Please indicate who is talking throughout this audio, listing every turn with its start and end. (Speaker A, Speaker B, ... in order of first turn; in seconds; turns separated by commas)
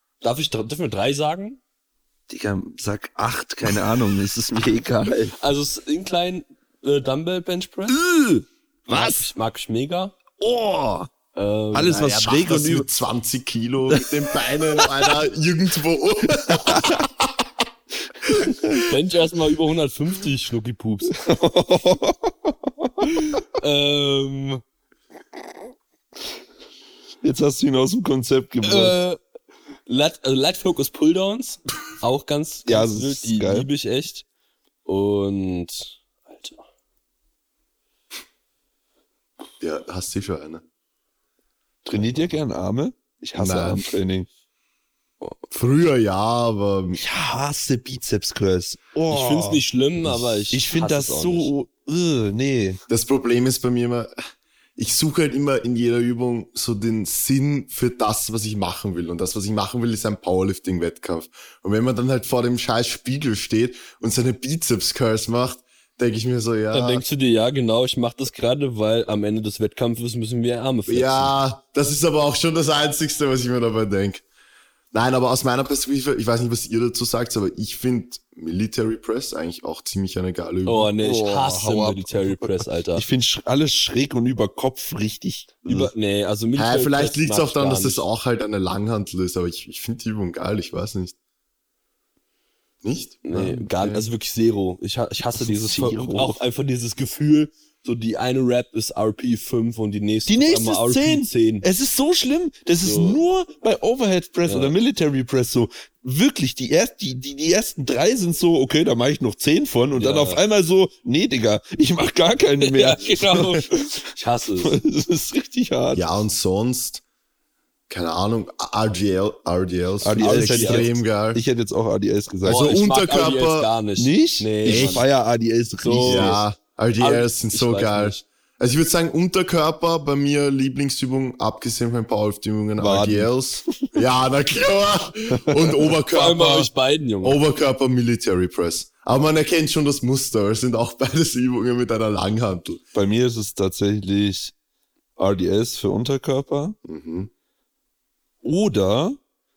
Speaker A: 0.2-1.6, Speaker B: 2.3-5.3, Speaker A: 5.4-8.0, Speaker B: 7.9-9.3, Speaker A: 8.9-10.2, Speaker B: 10.4-11.1, Speaker A: 11.3-12.1, Speaker B: 11.7-12.9, Speaker C: 11.8-17.4, Speaker B: 16.5-17.0, Speaker C: 18.2-18.8, Speaker A: 18.7-21.2, Speaker B: 21.2-23.3, Speaker A: 23.3-24.6, Speaker B: 27.2-29.0, Speaker A: 28.6-29.2, Speaker A: 29.9-34.2, Speaker B: 32.6-33.7, Speaker A: 34.9-36.6, Speaker C: 39.6-40.6, Speaker B: 41.8-44.3, Speaker C: 43.4-43.9, Speaker C: 45.5-47.0, Speaker B: 46.9-52.8, Speaker A: 49.1-51.5, Speaker C: 52.9-54.1, Speaker C: 54.8-67.0, Speaker A: 66.7-71.3, Speaker C: 70.9-74.2, Speaker C: 74.9-80.9, Speaker A: 80.6-83.1, Speaker B: 81.0-85.9, Speaker A: 85.7-88.0, Speaker C: 86.5-91.1, Speaker C: 92.8-94.1, Speaker A: 93.2-101.7, Speaker B: 95.3-96.4, Speaker B: 100.3-116.0, Speaker A: 102.8-103.2, Speaker A: 104.5-104.7, Speaker A: 110.0-110.4, Speaker A: 112.6-114.8, Speaker C: 115.9-117.0, Speaker C: 117.9-121.4, Speaker B: 120.0-122.7, Speaker A: 120.2-120.9, Speaker C: 122.5-123.7, Speaker A: 122.5-125.1, Speaker B: 124.0-126.4, Speaker C: 124.6-125.0, Speaker A: 125.8-126.4, Speaker C: 126.0-136.7, Speaker A: 127.0-128.2, Speaker B: 132.8-134.0, Speaker B: 135.3-135.9, Speaker A: 136.1-137.4, Speaker C: 137.2-142.8, Speaker B: 142.9-144.5, Speaker B: 145.2-146.8, Speaker C: 146.8-147.3, Speaker B: 148.4-149.2